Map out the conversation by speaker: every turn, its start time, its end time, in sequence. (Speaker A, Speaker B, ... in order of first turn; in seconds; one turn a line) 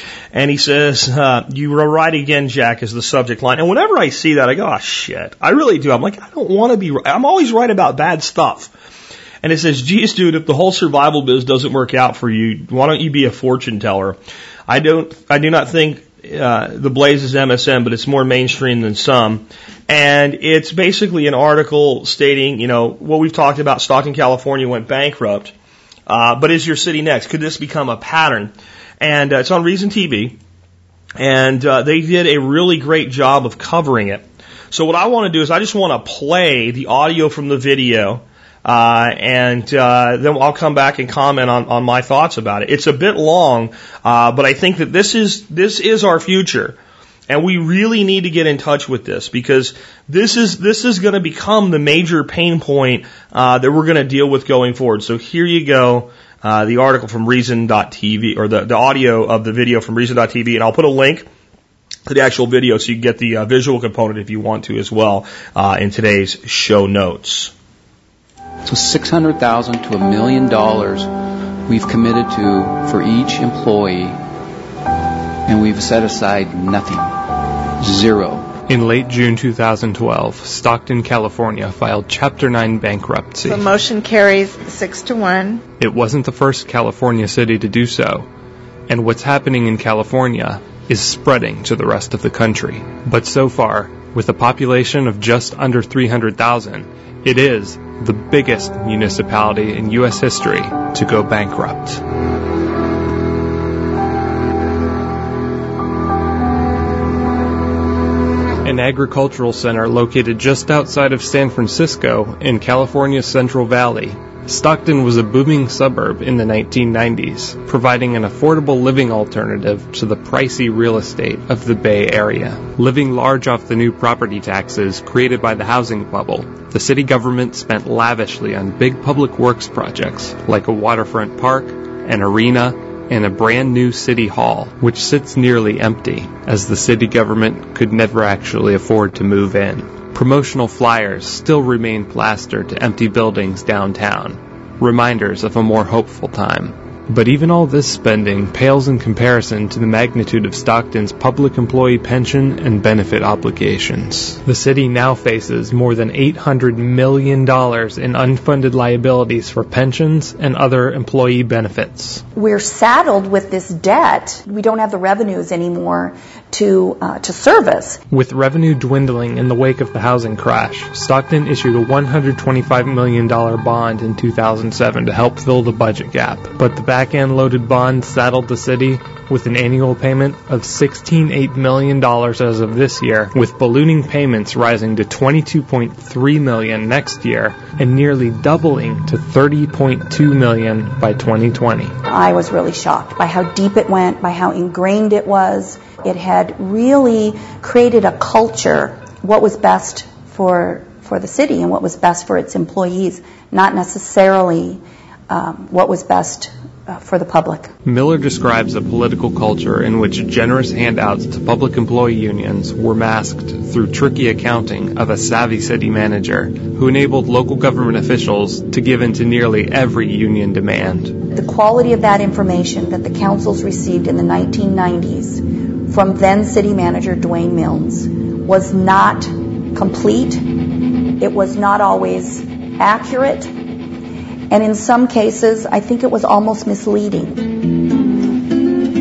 Speaker A: 0.3-8.7
Speaker A: 9.4-25.5
Speaker A: 26.1-30.4
Speaker A: 31.2-46.8
Speaker A: 47.3-61.3
Speaker A: 62.1-67.5
Speaker B: 68.6-74.2
Speaker B: 75.5-78.5
Speaker C: 78.7-83.6
Speaker D: 83.4-85.6
Speaker C: 85.8-88.3
Speaker C: 88.9-102.0
Speaker C: 108.6-162.2
Speaker E: 162.3-168.0
Speaker C: 168.1-191.9
Speaker E: 192.1-207.7
Speaker C: 207.8-221.2
Speaker E: 221.3-230.6
Speaker E: 231.2-233.5
Speaker E: 234.5-237.6